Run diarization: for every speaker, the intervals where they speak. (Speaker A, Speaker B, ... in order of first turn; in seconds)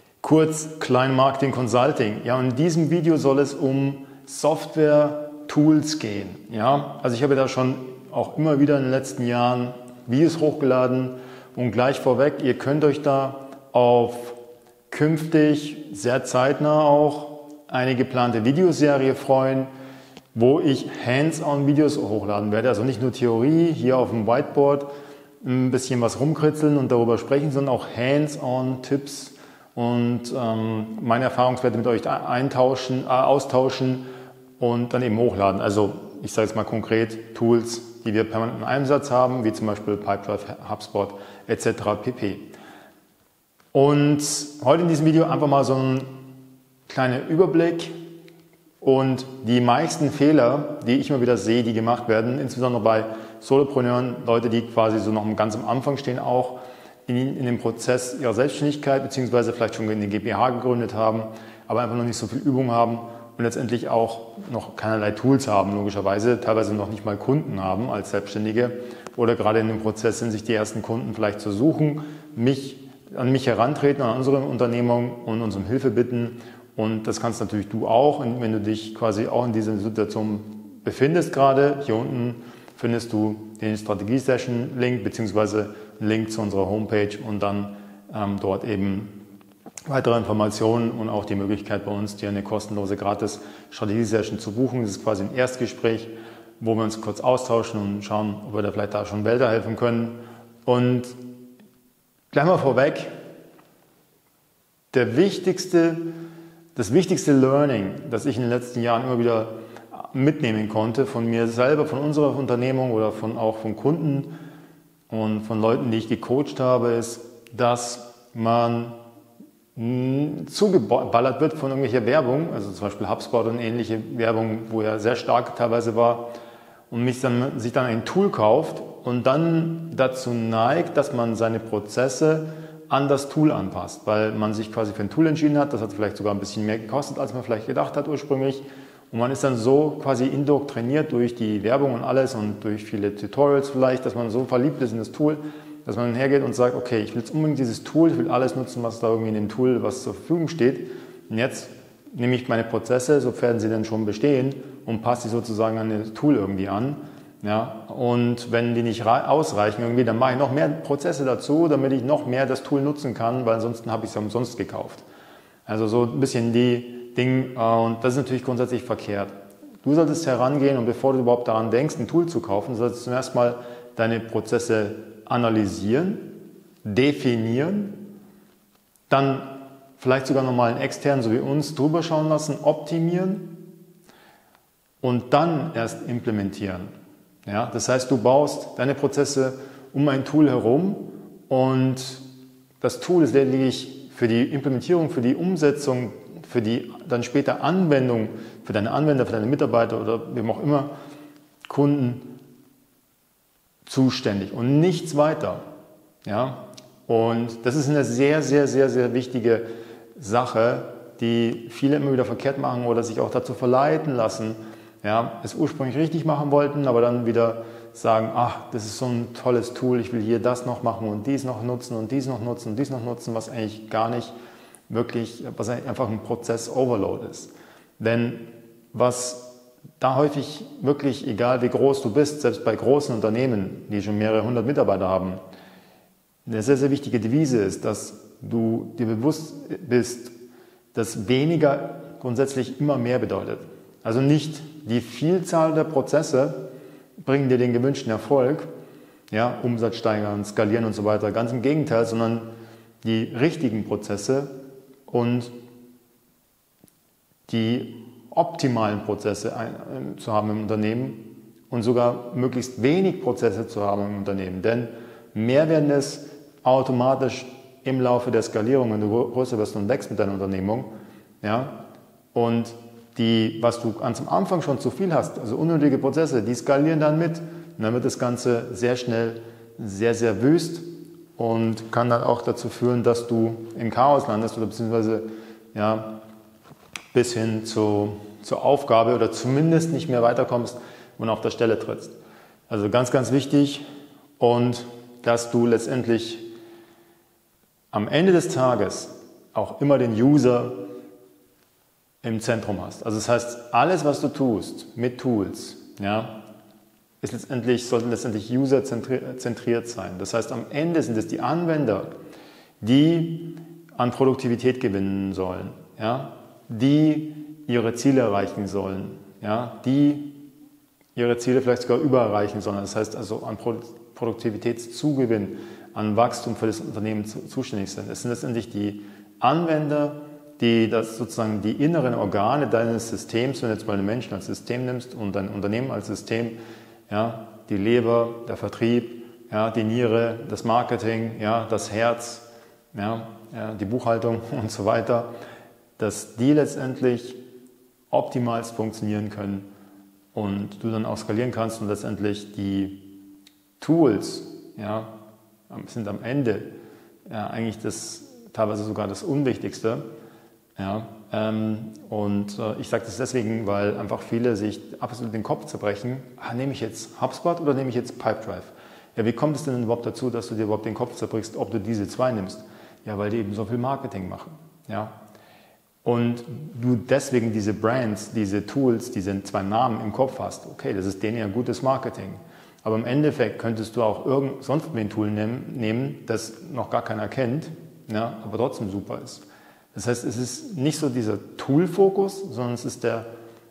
Speaker A: 0.2-14.4, 14.9-19.7, 20.3-24.9, 25.4-34.0, 34.6-42.5, 43.7-46.1, 46.9-47.9, 48.8-89.1, 89.9-101.1, 102.3-103.1, 104.9-106.1, 106.8-114.3, 115.1-119.0, 119.8-126.3, 126.9-165.0, 165.7-178.0, 179.1-183.6, 185.0-186.9, 187.5-192.2, 192.8-200.9, 201.7-202.3, 203.9-205.6, 206.2-224.3, 224.9-235.4, 236.5-240.3, 240.9-246.7, 247.2-248.7, 249.3-252.5, 253.0-254.5, 255.1-255.5, 257.5-270.9, 271.4-271.8, 272.3-286.2, 287.1-292.1, 292.7-293.8, 294.4-296.4, 297.9-300.8, 302.2-306.4, 307.2-312.1, 312.8-320.4, 321.2-336.6, 337.1-345.3, 346.0-347.4, 348.1-349.7, 350.3-353.1, 353.8-355.1, 355.7-356.7, 357.3-360.1, 360.8-375.1, 376.0-393.3